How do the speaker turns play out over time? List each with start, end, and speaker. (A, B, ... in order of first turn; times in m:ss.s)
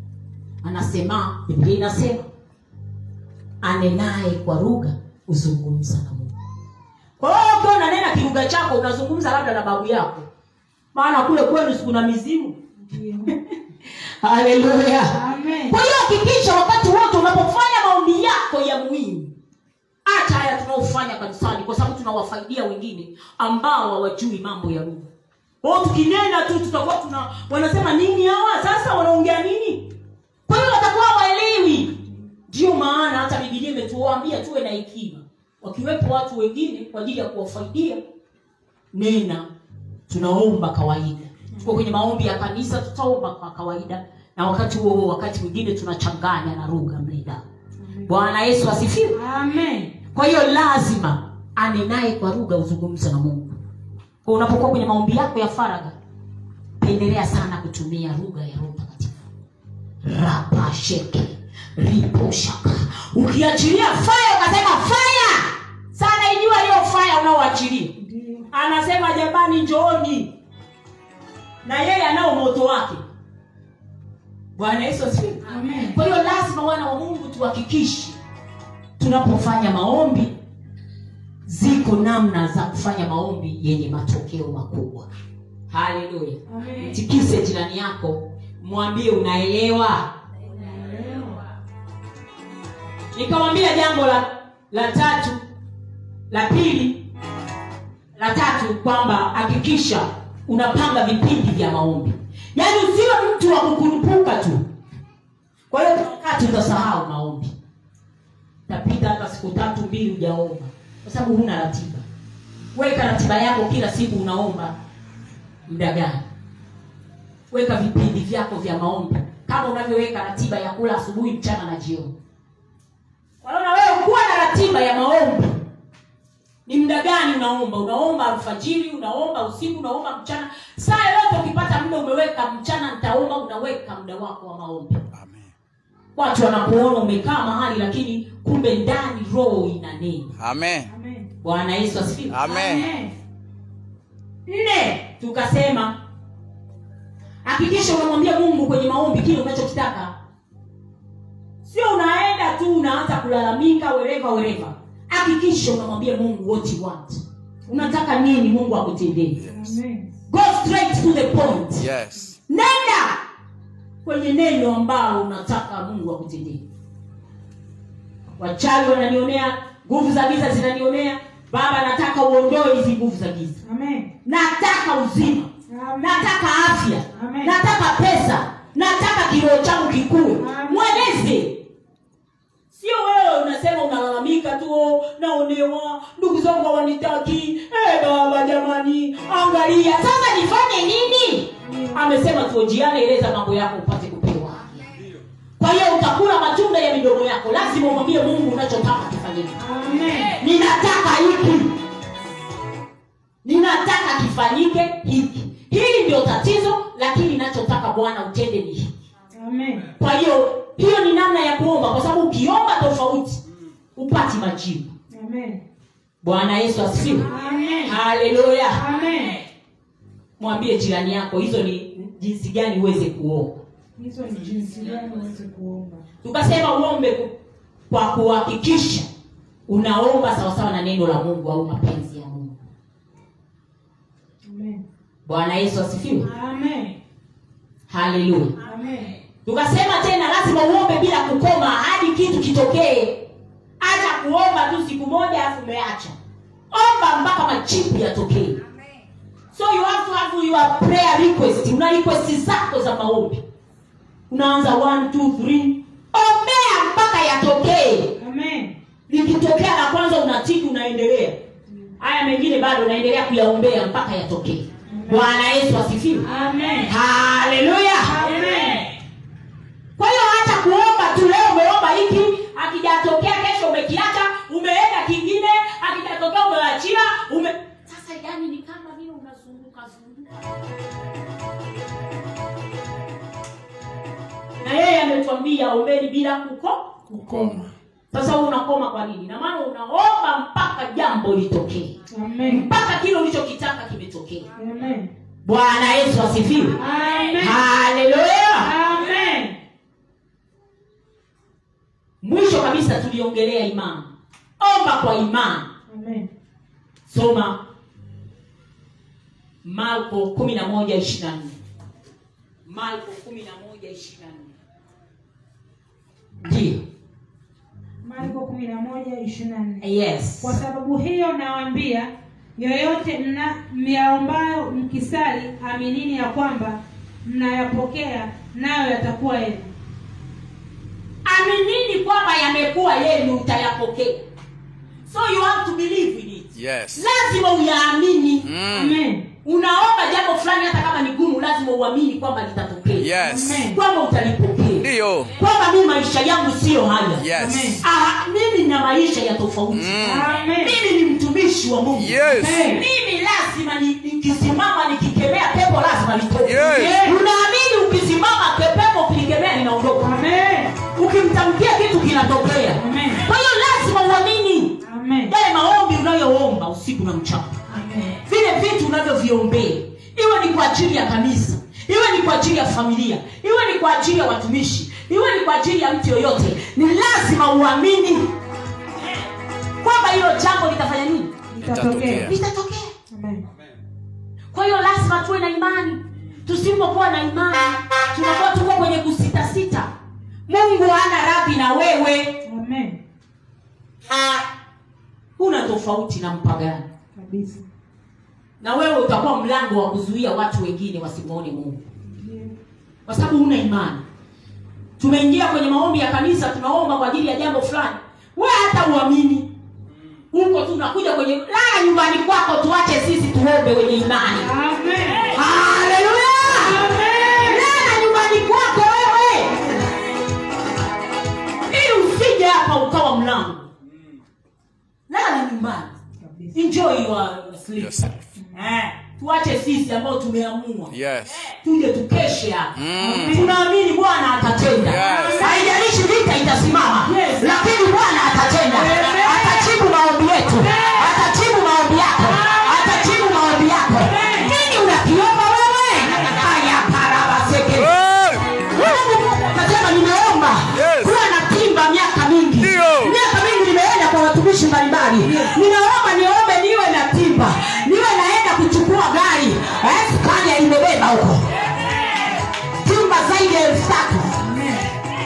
0:00.6-0:02.3 A
0:03.6-0:06.3 A
0:07.2-0:10.3 A
0:10.9-0:12.6 A
0:12.8-0:13.4 B
0:14.2-0:15.2 A
0:15.1-0:15.8 B
0:15.7-0:19.3 A
0:20.0-0:25.1 A
0:25.6-0:29.9 A
0:30.5-0:32.0 A
0:32.5-0:38.0 A
0:38.9-0:39.5 A
0:40.1-0:47.4 A
0:47.8-0:48.1 B
0:48.1-0:49.2 A
0:49.1-0:50.0 B
0:50.1-0:53.6 A
0:54.2-0:56.0 A
0:56.8-0:59.2 A
1:00.0-1:08.0 A
1:08.0-1:08.5 B
1:08.5-1:10.3 A
1:11.6-1:13.0 A
1:14.6-1:18.2 A
1:15.5-1:16.0 B
1:19.0-1:20.4 A
1:21.5-1:25.1 A
1:25.7-1:30.1 A
1:26.5-1:27.0 B
1:30.5-1:31.4 B
1:33.2-1:35.4 A
1:36.3-1:37.1 A
1:38.2-1:44.7 A
1:45.7-1:47.5 A
1:48.7-1:52.1 A
1:52.7-1:54.7 A
1:55.7-1:56.2 A
1:57.5-2:02.2 A
2:03.4-2:05.6 A
2:06.7-2:15.0 A
2:15.1-2:15.5 C
2:16.2-2:20.3 A
2:20.4-2:20.9 C
2:20.9-2:21.3 B
2:21.4-2:22.4 A
2:22.3-2:22.9 C
2:22.4-2:23.1 B
2:24.5-2:26.0 A
2:27.4-2:30.2 A
2:31.6-2:39.4 A
2:37.7-2:38.0 B
2:39.4-2:39.7 C
2:39.5-2:40.1 B
2:40.3-2:41.9 A
2:41.8-2:42.4 C
2:42.5-2:43.2 A
2:44.0-2:46.6 A
2:48.4-2:53.6 A
2:53.6-2:54.1 B
2:54.2-3:01.6 A
2:55.7-2:56.3 B
2:57.1-2:57.6 B
3:00.4-3:01.1 B
3:02.7-3:14.8 A
3:11.6-3:12.0 B
3:15.6-3:19.6 A
3:19.6-3:20.4 B
3:20.4-3:21.8 A
3:23.4-3:28.9 A
3:29.4-3:29.9 B
3:30.0-3:33.4 A
3:34.0-3:34.9 A
3:35.1-3:35.6 B
3:36.2-3:37.3 A
3:37.1-3:38.0 B
3:37.8-3:38.8 A
3:38.8-3:39.4 B
3:40.4-3:43.6 A
3:44.0-3:46.0 B
3:46.2-3:47.3 A
3:47.9-3:49.1 A
3:49.7-3:52.6 A
3:54.5-3:54.8 B
3:55.3-3:56.3 A
3:56.2-3:57.0 B
3:57.9-3:58.6 A
3:58.6-3:59.2 B
3:59.4-4:03.3 A
4:03.8-4:06.2 A
4:06.7-4:08.6 A
4:09.5-4:13.4 A
4:14.3-4:18.2 A
4:18.2-4:18.8 B
4:19.1-4:21.4 A
4:22.0-4:26.3 A
4:24.9-4:25.3 B
4:26.2-4:26.9 B
4:26.9-4:28.2 A
4:28.0-4:28.9 B
4:30.0-4:40.5 A
4:44.6-4:47.0 A
4:47.1-4:47.7 B
4:47.2-4:47.7 C
4:48.1-4:54.5 A
4:52.1-4:52.7 B
4:54.6-4:55.1 B
4:55.5-4:56.8 A
4:56.8-4:57.6 B
4:57.4-4:58.7 A
4:58.6-4:59.6 B
5:02.2-5:05.7 A
5:05.9-5:06.3 B
5:07.1-5:07.6 A
5:09.6-5:11.6 A
5:12.7-5:14.5 A
5:16.4-5:16.8 A
5:18.0-5:19.9 B
5:19.8-5:20.6 A
5:20.4-5:29.7 B
5:31.2-5:34.2 A
5:35.1-5:38.5 A
5:36.6-5:37.0 C
5:38.4-5:39.0 C
5:38.7-5:39.3 B
5:39.4-5:47.3 A
5:43.0-5:43.7 C
5:43.2-5:43.8 B
5:44.8-5:45.4 C
5:47.2-5:47.8 C
5:47.4-5:47.8 B
5:47.8-6:00.1 A
5:49.7-5:50.3 C
5:50.0-5:50.8 B
5:52.0-5:52.6 C
5:52.4-5:52.8 B
5:56.4-5:57.0 C
5:56.8-5:57.2 B
6:00.0-6:00.8 B
6:00.9-6:07.6 A
6:02.8-6:03.2 B
6:04.8-6:05.3 B
6:07.7-6:08.2 B
6:08.2-6:18.3 A
6:19.8-6:21.3 A
6:21.5-6:22.3 B
6:21.6-6:22.4 C
6:22.2-6:22.9 A
6:23.1-6:23.5 B
6:24.5-6:29.9 A
6:30.5-6:32.4 A
6:32.4-6:33.0 B
6:35.4-6:36.9 A
6:37.2-6:37.7 B
6:38.6-6:41.8 A
6:42.1-6:42.6 B
6:43.1-6:44.0 A
6:45.0-6:49.5 A
6:50.3-6:54.5 A
6:54.4-6:55.3 B
6:55.3-6:56.9 A
6:56.5-6:57.7 B
6:57.4-6:59.7 A
7:01.7-7:03.7 A
7:05.1-7:06.0 A
7:06.2-7:06.6 B
7:06.5-7:28.0 A
7:07.8-7:08.1 C
7:10.9-7:11.4 C
7:12.8-7:13.4 C
7:13.0-7:13.6 B
7:14.8-7:15.5 C
7:15.1-7:15.6 B
7:17.0-7:17.5 B
7:18.7-7:19.7 B
7:20.6-7:21.1 B
7:22.4-7:22.7 B
7:24.0-7:24.5 B
7:28.7-7:41.5 A
7:32.7-7:33.1 C
7:35.2-7:35.6 B
7:42.8-7:44.4 A
7:44.4-7:44.9 B